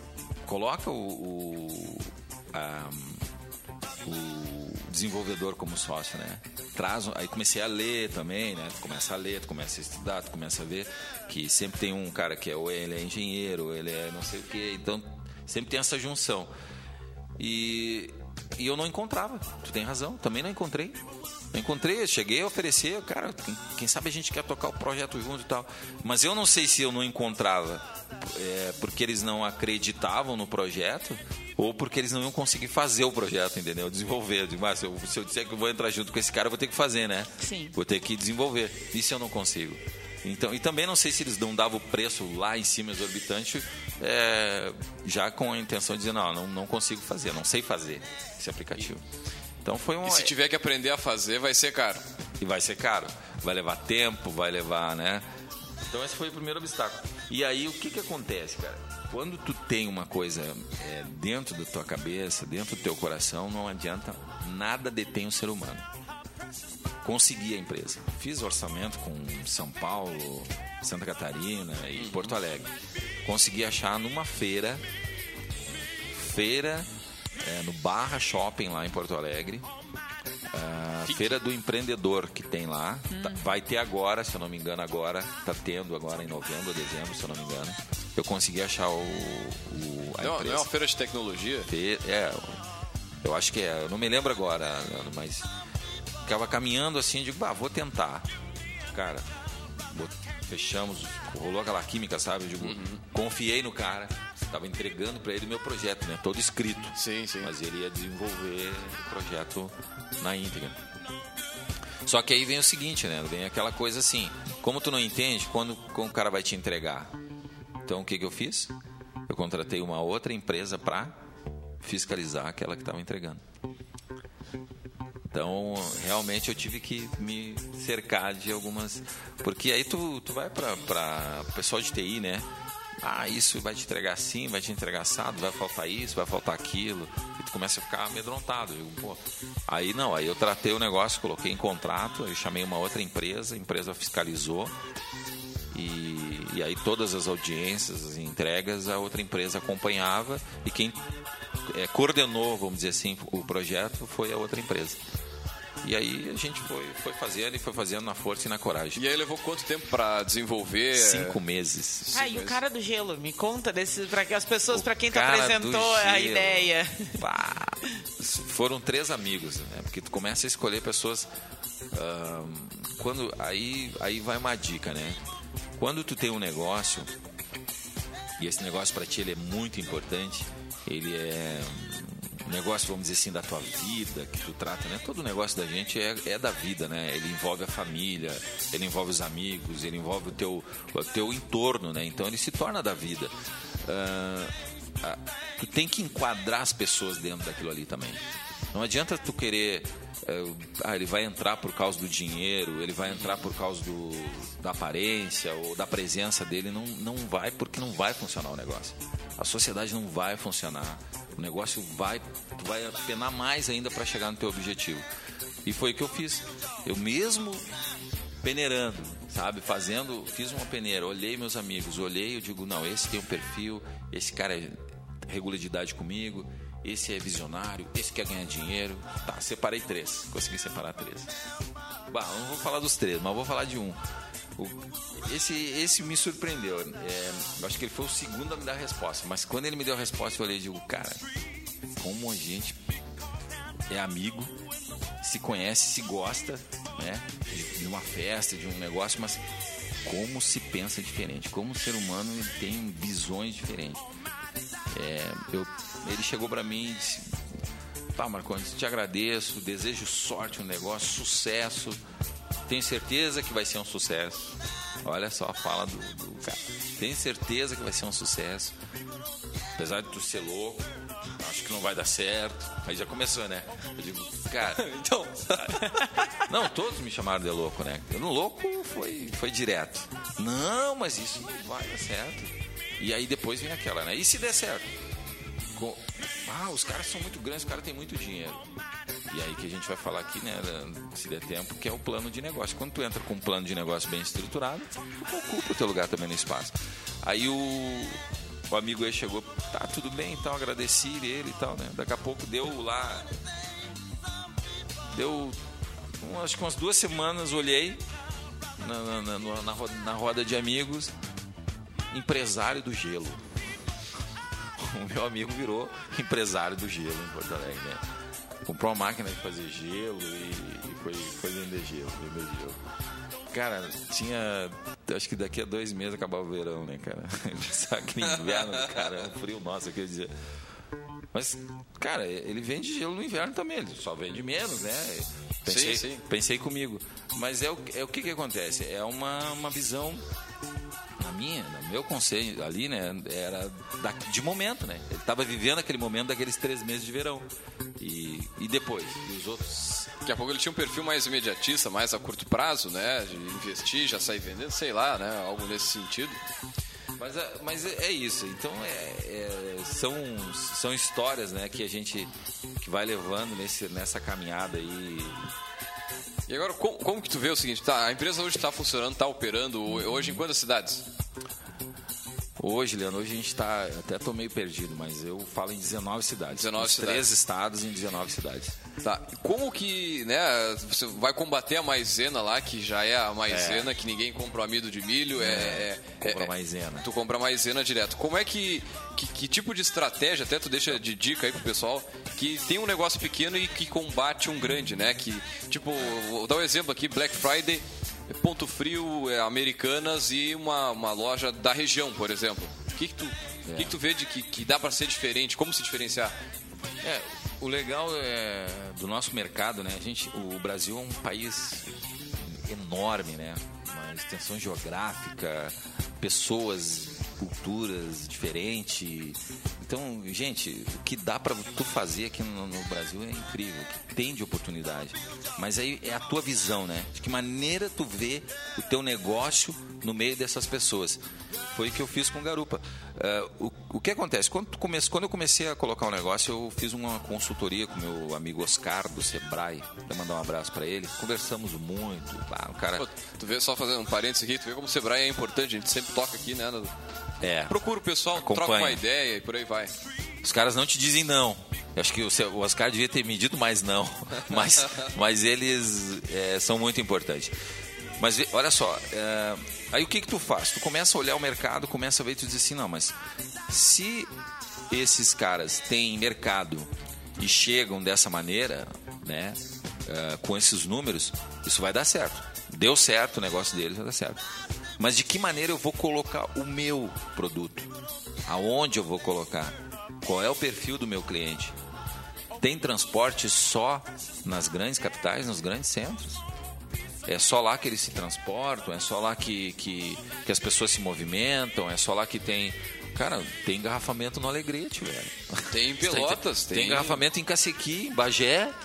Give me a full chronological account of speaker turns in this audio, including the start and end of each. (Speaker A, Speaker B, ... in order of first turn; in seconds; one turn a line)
Speaker A: 0.5-3.2
Speaker A: 4.0-16.5
Speaker A: 17.4-21.0
Speaker A: 21.5-49.0
Speaker B: 37.4-37.8
Speaker A: 49.6-50.3
Speaker C: 50.0-52.1
Speaker A: 52.4-55.2
Speaker A: 55.8-65.9
Speaker A: 67.0-72.7
Speaker C: 72.0-72.4
Speaker A: 73.2-74.8
Speaker A: 76.1-76.9
Speaker A: 77.4-79.7
Speaker A: 80.5-90.7
Speaker C: 81.0-81.4
Speaker B: 83.1-83.5
Speaker C: 90.2-91.7
Speaker A: 91.7-92.6
Speaker A: 93.2-95.5
Speaker A: 96.2-98.3
Speaker A: 98.9-99.3
Speaker A: 99.9-110.8
Speaker C: 102.6-103.0
Speaker C: 107.0-107.5
Speaker A: 112.0-117.1
Speaker A: 117.8-118.7
Speaker A: 119.3-121.2
Speaker A: 121.8-123.4
Speaker A: 125.3-132.5
Speaker A: 133.0-144.8
Speaker A: 145.7-151.0
Speaker A: 151.7-155.0
Speaker A: 155.8-159.1
Speaker C: 158.9-161.4
Speaker A: 160.9-162.1
Speaker C: 162.0-162.6
Speaker B: 162.1-167.2
Speaker A: 164.7-171.3
Speaker A: 171.9-175.2
Speaker A: 175.8-177.1
Speaker A: 178.4-193.3
Speaker A: 193.8-215.0
Speaker A: 215.6-217.7
Speaker A: 218.4-231.3
Speaker A: 232.1-234.0
Speaker A: 234.6-241.2
Speaker A: 242.0-242.8
Speaker A: 243.9-244.6
Speaker A: 245.2-249.4
Speaker A: 250.0-254.0
Speaker A: 254.9-257.4
Speaker A: 258.1-262.0
Speaker A: 262.7-268.8
Speaker A: 269.8-270.9
Speaker A: 271.4-274.9
Speaker C: 274.8-276.3
Speaker A: 276.4-284.9
Speaker A: 285.7-288.7
Speaker A: 289.3-303.3
Speaker A: 305.1-305.6
Speaker A: 306.2-308.0
Speaker A: 308.8-311.1
Speaker A: 312.1-313.4
Speaker A: 314.8-318.0
Speaker A: 318.6-322.8
Speaker A: 323.5-330.3
Speaker A: 331.3-340.2
Speaker C: 335.6-336.2
Speaker A: 341.2-347.5
Speaker A: 348.0-350.1
Speaker C: 350.2-356.4
Speaker A: 357.2-365.5
Speaker C: 366.5-371.1
Speaker A: 369.9-370.4
Speaker A: 372.6-378.8
Speaker C: 376.5-377.3
Speaker C: 379.0-406.3
Speaker A: 383.5-383.9
Speaker A: 385.4-387.1
Speaker A: 403.6-404.0
Speaker A: 407.0-443.1
Speaker C: 443.0-446.9
Speaker A: 447.4-447.8
Speaker C: 447.7-449.9
Speaker A: 448.3-449.0
Speaker A: 450.4-457.5
Speaker A: 458.2-463.1
Speaker A: 463.7-464.3
Speaker A: 464.9-474.4
Speaker A: 475.0-477.9
Speaker A: 478.4-481.8
Speaker A: 482.6-486.4
Speaker A: 487.2-498.8
Speaker C: 495.7-497.2